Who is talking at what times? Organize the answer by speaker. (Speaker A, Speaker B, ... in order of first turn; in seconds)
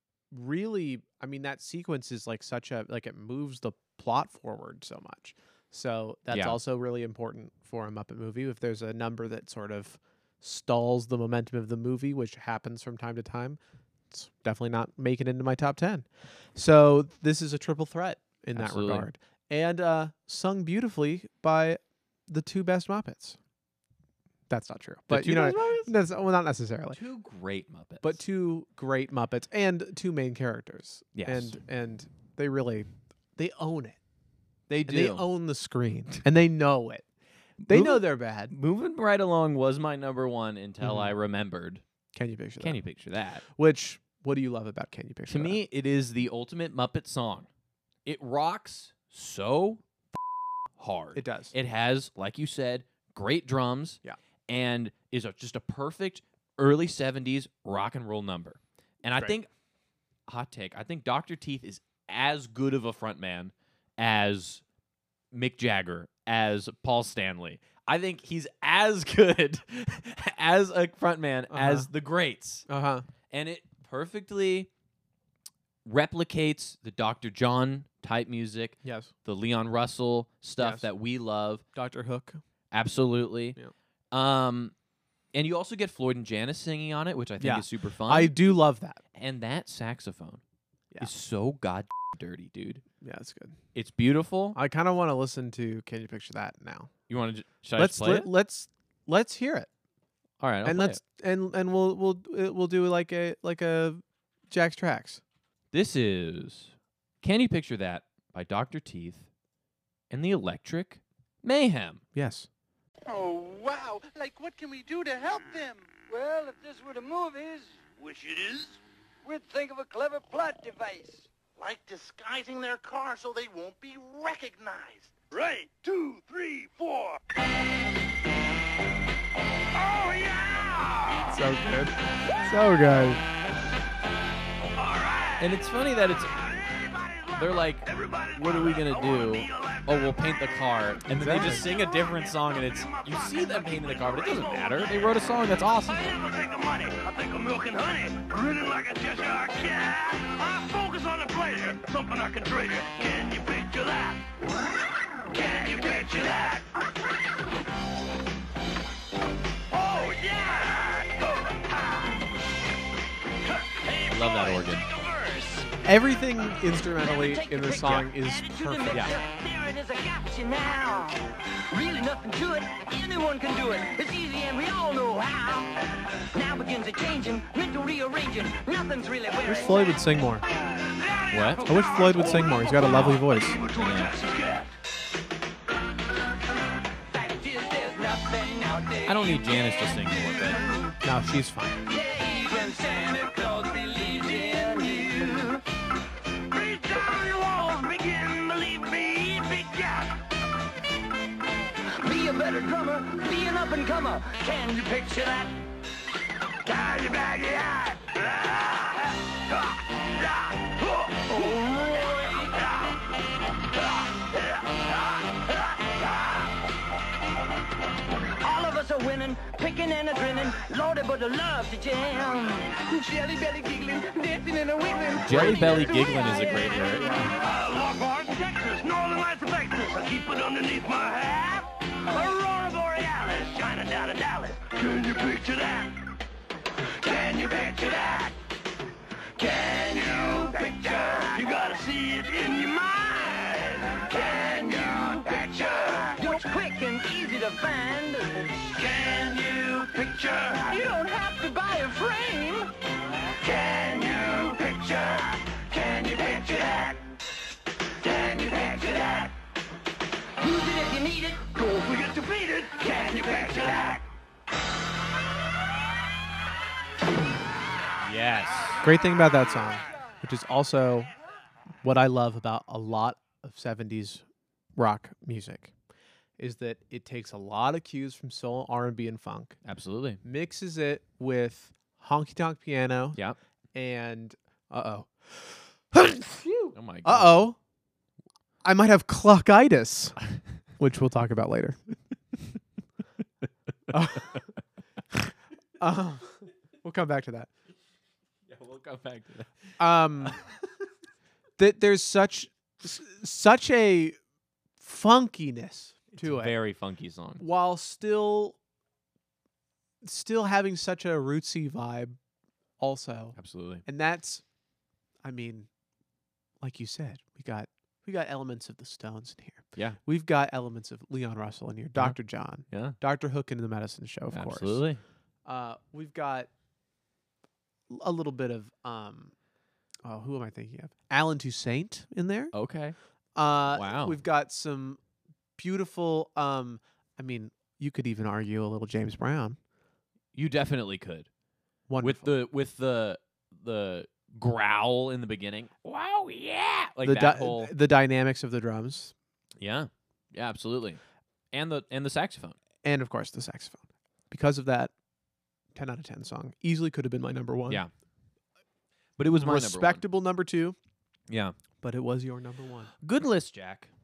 Speaker A: 0.3-13.6, 14.1-23.4, 24.5-27.0, 28.0-34.0, 34.9-37.0, 37.7-38.5, 40.8-41.1, 42.1-42.8, 43.5-45.6, 51.1-51.5, 71.5-71.9, 72.7-73.1, 78.8-79.1, 80.6-80.9, 81.8-82.4, 87.4-89.0, 93.0-93.6, 94.5-96.9, 97.8-99.7, 100.7-105.2, 112.2-112.5, 131.3-133.2, 141.1-141.7, 165.8-169.1, 179.4-180.4, 181.7-183.6, 191.0-191.8, 268.8-271.1, 271.8-274.2, 274.8-275.7, 276.4-279.6, 280.2-283.2, 283.7-287.6, 288.6-290.2, 290.8-291.8, 293.9-294.5, 295.8-297.5, 299.8-300.4, 301.6-304.2, 304.8-306.6, 307.4-308.6, 310.0-312.2, 312.8-314.4, 315.2-315.7, 316.6-324.8, 325.4-326.5, 327.9-329.3, 330.1-332.5, 333.4-335.0, 335.6-339.6, 341.9-342.4, 347.0-349.1, 352.8-354.9, 355.8-357.8, 359.4-360.8, 361.8-362.9
Speaker B: 6.3-6.6, 18.6-19.1, 25.1-25.9, 26.9-28.2, 31.1-31.6, 34.7-35.2, 37.6-41.8, 42.6-43.4, 45.3-47.5, 48.0-49.8, 50.8-59.5, 60.3-64.6, 65.3-72.7, 73.3-74.7, 75.8-81.6, 82.7-83.6, 84.1-84.7, 85.3-88.3, 89.2-90.4, 91.0-92.8, 93.8-94.6, 97.1-98.3, 100.4-101.0, 105.7-109.3, 110.1-112.0, 135.4-136.3, 137.4-146.1, 164.1-164.8, 181.3-181.7, 182.8-184.2, 189.1-190.7, 225.2-227.3, 268.0-268.8, 279.6-280.2, 286.7-287.5, 298.5-300.6, 306.2-307.4, 313.4-313.8, 322.7-323.0, 324.3-325.0, 332.5-333.0, 333.7-334.2, 340.3-341.3, 342.0-347.7, 349.6-351.0, 351.5-352.6, 359.2-360.0, 361.3-361.5, 363.0-363.9
Speaker C: 113.1-125.1, 166.9-175.7, 176.3-180.0, 187.1-190.9, 191.9-195.6, 202.0-205.5, 211.3-212.1, 218.4-227.4, 246.2-248.5, 250.7-252.7, 260.4-261.4
Speaker D: 118.1-118.6, 125.3-127.2, 129.7-131.3, 134.8-135.5, 136.2-140.6, 141.3-154.3, 155.3-156.8, 159.7-162.2, 163.4-165.7, 180.8-184.7, 196.5-200.2, 206.7-212.9, 227.3-236.0, 236.9-238.4, 239.4-246.3, 248.7-250.7, 253.4-257.0, 258.0-259.3, 261.5-264.0